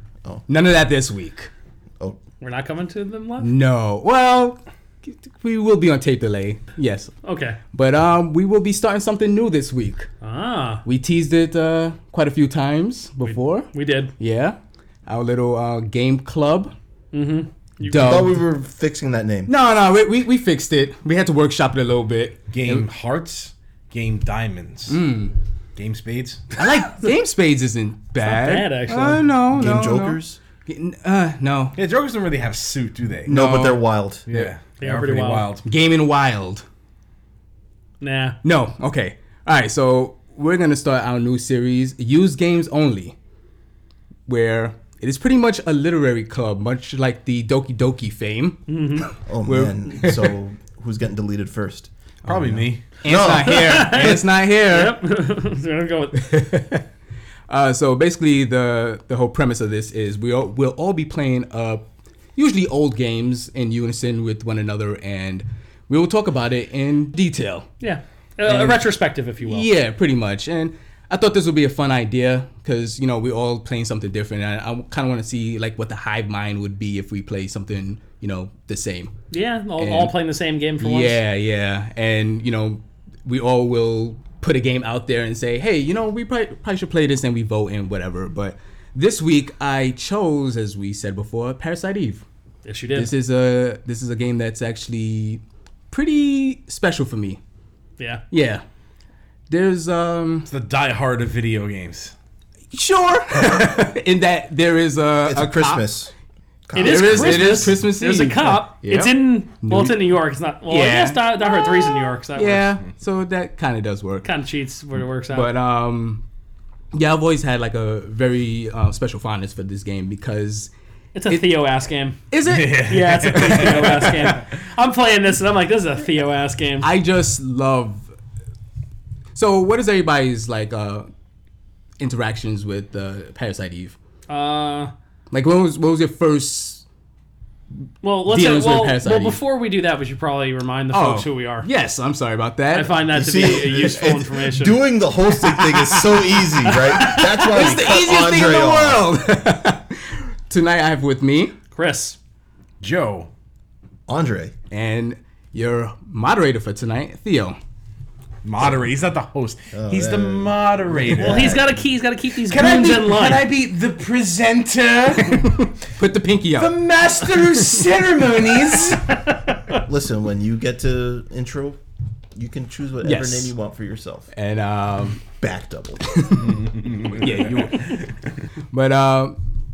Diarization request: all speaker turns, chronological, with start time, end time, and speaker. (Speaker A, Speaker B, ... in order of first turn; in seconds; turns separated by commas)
Speaker A: 0.5-1.5, Speaker B: 2.4-3.5, Speaker A: 3.4-7.1, Speaker B: 7.2-7.6, Speaker A: 7.7-10.1, Speaker B: 10.2-10.8, Speaker A: 10.8-16.7, Speaker B: 13.2-14.1, Speaker B: 17.1-18.3, Speaker A: 17.8-18.4, Speaker C: 17.9-19.5, Speaker A: 19.5-22.9, Speaker D: 22.5-25.0, Speaker A: 24.9-25.3, Speaker D: 25.8-26.5, Speaker A: 26.6-31.8, Speaker B: 28.2-29.3, Speaker C: 29.5-30.4, Speaker D: 31.8-33.4, Speaker A: 33.3-34.5, Speaker C: 33.3-34.2, Speaker D: 34.2-35.6, Speaker B: 34.8-35.5, Speaker A: 35.6-36.6, Speaker B: 38.0-38.4, Speaker A: 38.4-43.1, Speaker A: 44.2-50.3, Speaker B: 48.7-49.1, Speaker C: 49.3-54.2, Speaker D: 52.2-53.0, Speaker A: 53.0-55.0, Speaker B: 53.4-56.4, Speaker A: 56.1-56.8, Speaker A: 57.5-61.8, Speaker A: 62.4-67.7, Speaker B: 67.8-69.7, Speaker A: 68.4-68.8, Speaker A: 69.4-79.1, Speaker B: 79.3-81.2, Speaker A: 79.8-80.1, Speaker A: 80.8-92.2, Speaker B: 92.6-93.1, Speaker A: 92.9-97.4, Speaker A: 98.3-98.6, Speaker A: 99.5-100.5, Speaker D: 100.5-102.1, Speaker A: 102.7-105.9, Speaker C: 105.2-106.1, Speaker C: 106.7-107.8, Speaker B: 106.7-112.7, Speaker A: 106.8-110.0, Speaker A: 110.7-114.3, Speaker B: 114.2-115.5, Speaker A: 115.3-116.2, Speaker A: 116.9-120.7, Speaker B: 121.1-122.2, Speaker A: 122.3-124.2, Speaker D: 122.5-124.4, Speaker B: 122.9-126.9, Speaker A: 126.8-128.1, Speaker A: 129.3-131.1, Speaker A: 132.0-133.9, Speaker B: 134.3-134.9, Speaker A: 135.3-136.8, Speaker B: 138.0-141.7, Speaker A: 138.2-139.4, Speaker A: 140.9-143.0, Speaker B: 142.7-144.8, Speaker C: 143.1-149.0, Speaker A: 145.4-151.6, Speaker B: 146.8-147.2, Speaker B: 151.7-152.2, Speaker D: 152.8-153.3, Speaker C: 154.1-154.5, Speaker A: 154.7-157.6, Speaker D: 158.4-161.6, Speaker C: 159.7-161.7, Speaker B: 161.2-163.4, Speaker D: 162.4-165.7, Speaker A: 165.2-166.8, Speaker D: 166.6-169.1, Speaker B: 168.6-169.8, Speaker C: 169.9-171.8, Speaker C: 172.3-174.3, Speaker A: 173.0-173.5, Speaker A: 174.3-175.2, Speaker C: 175.4-176.0, Speaker A: 176.1-178.1, Speaker D: 176.5-177.9, Speaker A: 178.7-179.4